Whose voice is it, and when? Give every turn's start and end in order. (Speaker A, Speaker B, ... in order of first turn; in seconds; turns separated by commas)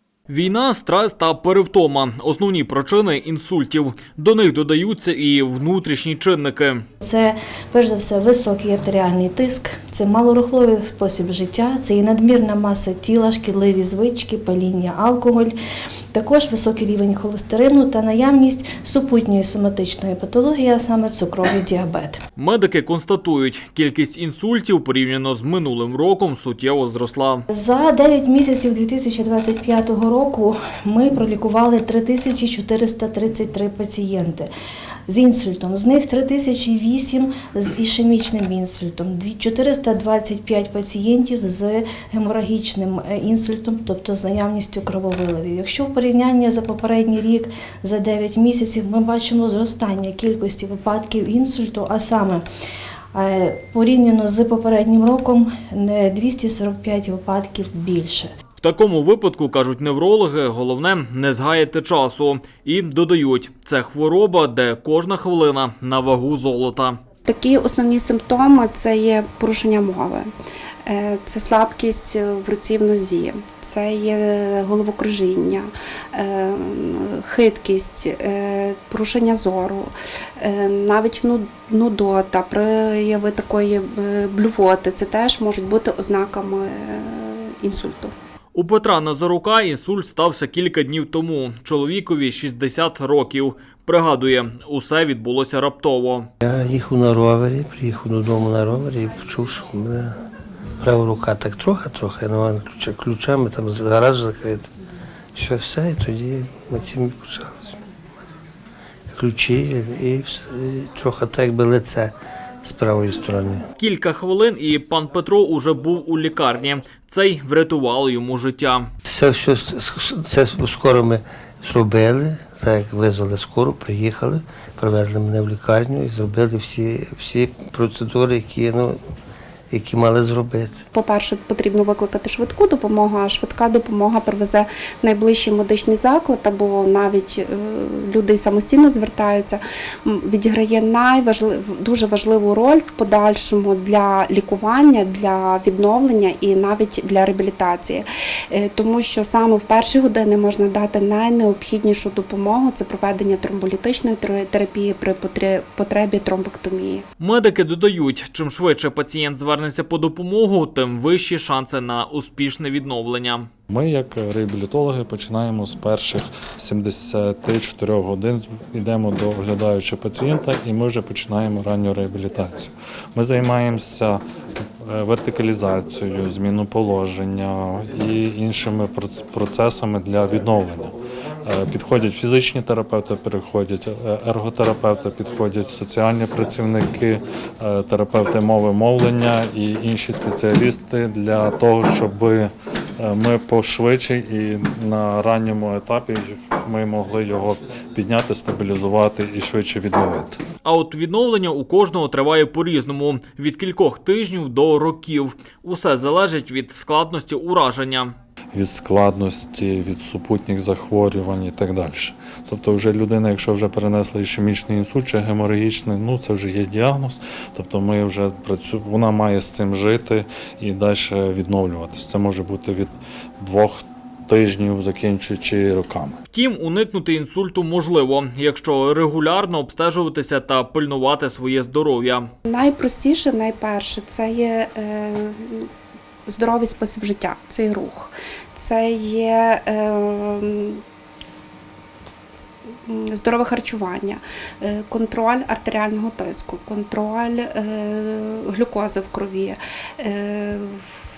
Speaker A: 0.3-6.8, Speaker B: 7.0-15.5, Speaker B: 16.1-22.2, Speaker A: 22.4-27.4, Speaker B: 27.5-34.5, Speaker B: 35.1-52.4, Speaker B: 53.1-58.3, Speaker A: 58.6-67.0, Speaker C: 67.2-70.3, Speaker C: 70.8-88.1, Speaker A: 88.5-96.3, Speaker D: 96.4-100.2, Speaker D: 100.8-104.7, Speaker D: 105.3-107.8, Speaker D: 109.1-113.7, Speaker A: 113.8-118.9, Speaker D: 119.0-129.0, Speaker D: 129.7-130.8, Speaker C: 130.9-157.1, Speaker A: 157.2-163.5, Speaker E: 163.7-174.2, Speaker E: 174.8-180.9, Speaker E: 181.4-200.4, Speaker A: 200.6-208.1, Speaker E: 208.5-226.2, Speaker A: 226.3-232.2, Speaker C: 232.4-235.7, Speaker C: 236.3-240.8, Speaker C: 242.9-250.8